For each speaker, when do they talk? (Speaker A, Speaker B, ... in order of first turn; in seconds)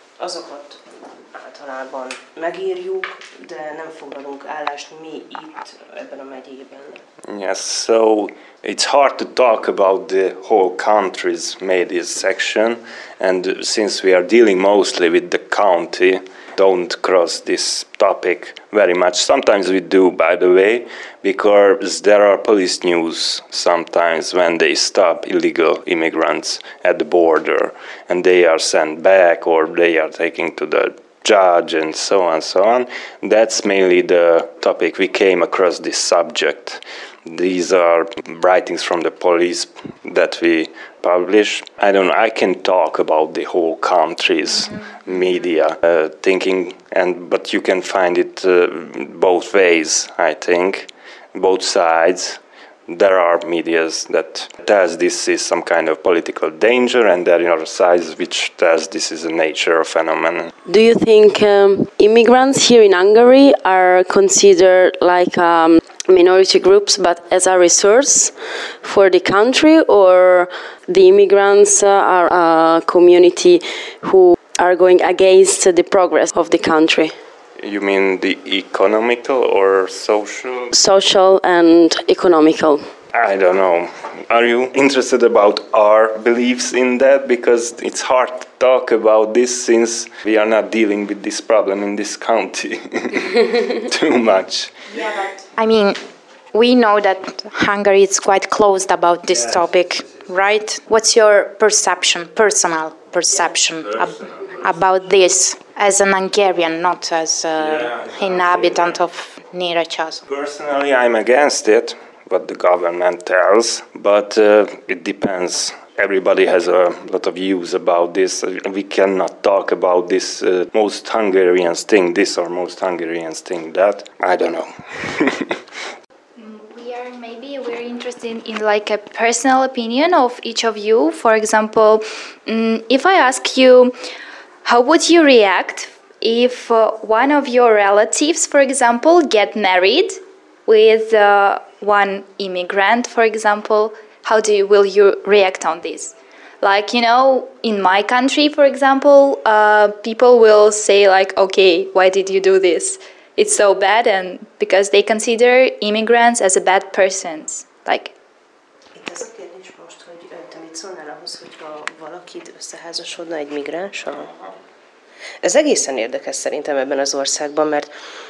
Speaker A: 0.2-7.0, 158.9-164.4, 165.4-167.9
Speaker B: 7.3-60.5, 77.6-80.7, 83.1-94.8, 103.9-104.5, 107.6-109.0, 110.3-125.6
Speaker C: 60.7-77.2, 80.7-82.8
Speaker D: 95.5-96.0, 96.5-110.2
Speaker E: 126.4-133.9, 134.7-158.1